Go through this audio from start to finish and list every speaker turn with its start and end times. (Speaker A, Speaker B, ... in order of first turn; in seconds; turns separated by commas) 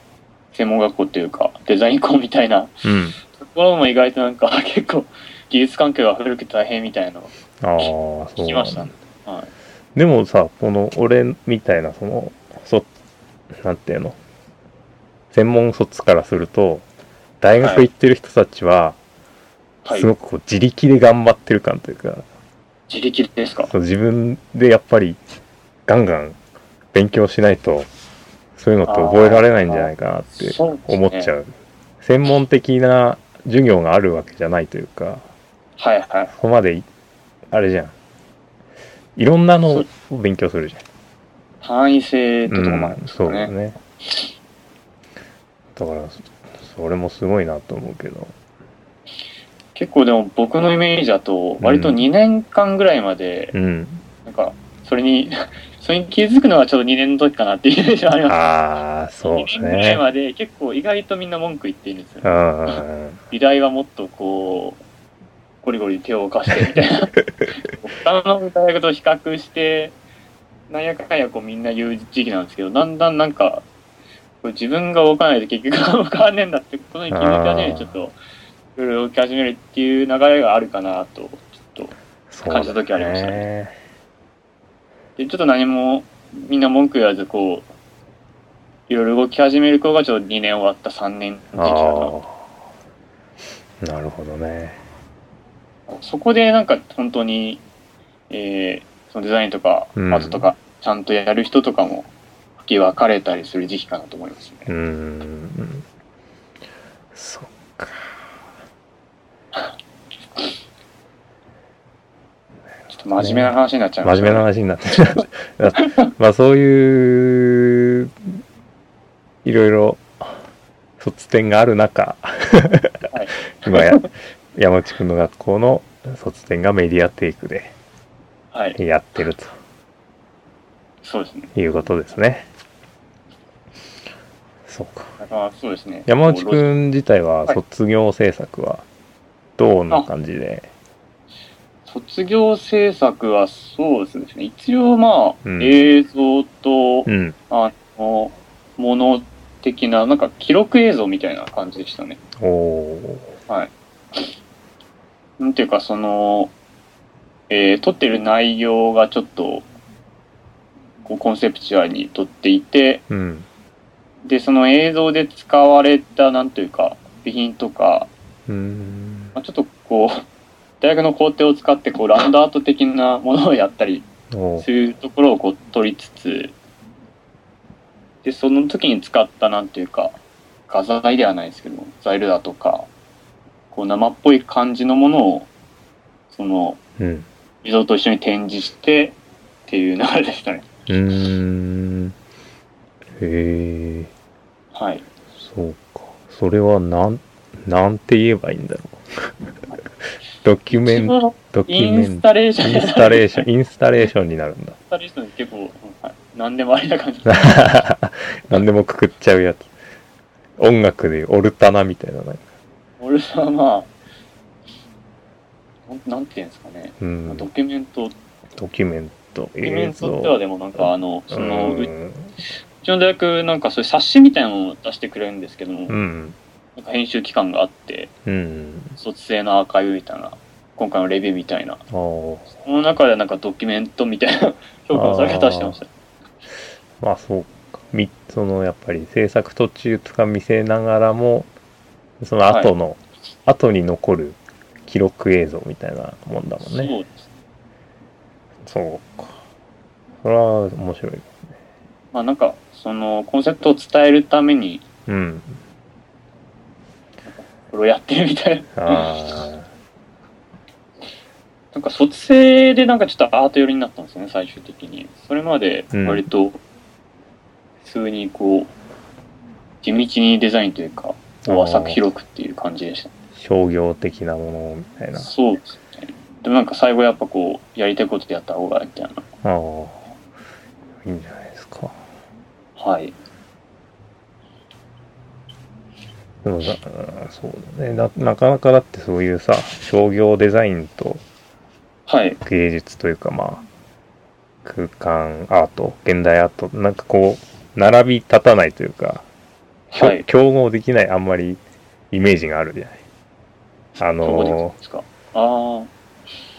Speaker A: 0.5-7.3, Speaker B: 2.8-3.2, Speaker B: 7.6-8.9, Speaker A: 8.4-9.5, Speaker B: 9.9-12.9, Speaker B: 13.6-14.2, Speaker B: 15.3-16.9, Speaker B: 17.4-19.0, Speaker A: 17.6-17.9, Speaker A: 19.9-20.1, Speaker B: 19.9-22.2, Speaker A: 22.9-23.7, Speaker B: 23.7-25.2, Speaker B: 25.9-26.4, Speaker B: 26.9-27.9, Speaker B: 28.6-35.2, Speaker A: 28.9-31.3, Speaker A: 35.8-36.3, Speaker B: 36.3-36.9, Speaker B: 37.5-37.9, Speaker B: 39.2-40.8, Speaker A: 41.6-43.5, Speaker B: 42.5-43.8, Speaker B: 45.8-48.3, Speaker A: 49.8-53.5, Speaker B: 51.6-52.1, Speaker B: 53.5-54.0, Speaker A: 54.3-58.5, Speaker B: 58.3-60.0, Speaker A: 59.3-64.8, Speaker B: 62.2-63.2, Speaker A: 65.6-70.0, Speaker A: 70.7-73.7, Speaker A: 74.4-78.2, Speaker B: 77.1-78.0, Speaker A: 78.8-81.9, Speaker B: 82.3-83.7, Speaker A: 82.5-83.5, Speaker A: 85.2-87.7, Speaker A: 88.9-92.2, Speaker B: 91.5-92.4, Speaker B: 93.8-94.8, Speaker A: 96.0-97.6, Speaker A: 98.3-104.7, Speaker B: 100.0-100.5, Speaker B: 104.7-105.8, Speaker B: 107.1-108.3, Speaker A: 112.9-114.5, Speaker B: 113.2-118.2, Speaker A: 115.8-116.1, Speaker B: 119.4-120.3, Speaker B: 121.0-123.1, Speaker A: 123.1-124.1, Speaker B: 123.6-127.7, Speaker A: 128.5-128.8, Speaker B: 128.8-129.5, Speaker A: 131.0-131.5, Speaker B: 131.6-132.5, Speaker B: 134.7-135.2, Speaker A: 135.2-136.7, Speaker B: 136.1-138.8, Speaker B: 139.6-140.7, Speaker A: 141.9-152.2, Speaker B: 145.4-145.8, Speaker B: 147.1-147.4, Speaker B: 152.4-153.3, Speaker A: 153.5-154.3, Speaker A: 155.4-156.5, Speaker A: 157.5-159.7, Speaker A: 161.1-163.0, Speaker B: 163.1-163.5, Speaker A: 164.2-168.1, Speaker B: 168.5-169.4, Speaker A: 169.4-170.2, Speaker A: 170.8-174.1, Speaker B: 174.3-174.7, Speaker A: 174.6-176.6, Speaker A: 178.2-182.9, Speaker A: 183.7-185.5, Speaker A: 186.3-186.8, Speaker B: 187.0-187.3, Speaker A: 187.6-190.7, Speaker B: 190.9-192.2, Speaker B: 193.2-194.1, Speaker A: 194.7-195.1, Speaker B: 195.3-199.3, Speaker B: 200.4-204.8, Speaker A: 200.7-203.5, Speaker A: 204.9-207.7, Speaker B: 207.3-209.7, Speaker B: 210.6-212.4, Speaker A: 213.0-213.9, Speaker A: 215.9-218.1, Speaker B: 217.0-217.5, Speaker B: 218.6-222.3, Speaker A: 219.6-221.9, Speaker A: 222.8-225.9, Speaker B: 225.9-226.4, Speaker A: 226.8-228.1, Speaker B: 228.3-229.0, Speaker A: 229.0-231.8, Speaker B: 231.9-232.5, Speaker A: 232.5-235.9, Speaker B: 234.9-235.8, Speaker B: 237.0-241.5, Speaker B: 242.2-246.9, Speaker A: 246.6-247.3, Speaker B: 248.7-249.4, Speaker B: 250.2-251.4, Speaker A: 252.1-254.8, Speaker B: 255.1-255.6, Speaker A: 257.3-259.1, Speaker B: 258.8-259.6, Speaker A: 261.7-266.6, Speaker B: 265.9-266.2, Speaker A: 267.8-268.7, Speaker A: 269.8-273.1, Speaker B: 271.4-272.0, Speaker B: 273.4-275.3, Speaker A: 275.1-279.2, Speaker B: 279.4-280.0, Speaker B: 281.0-282.0, Speaker A: 282.8-283.2, Speaker B: 286.4-291.2, Speaker A: 292.1-292.4, Speaker B: 292.4-293.6, Speaker B: 294.6-299.2, Speaker A: 299.9-300.2, Speaker B: 300.0-303.0, Speaker B: 304.0-304.7, Speaker A: 304.2-305.9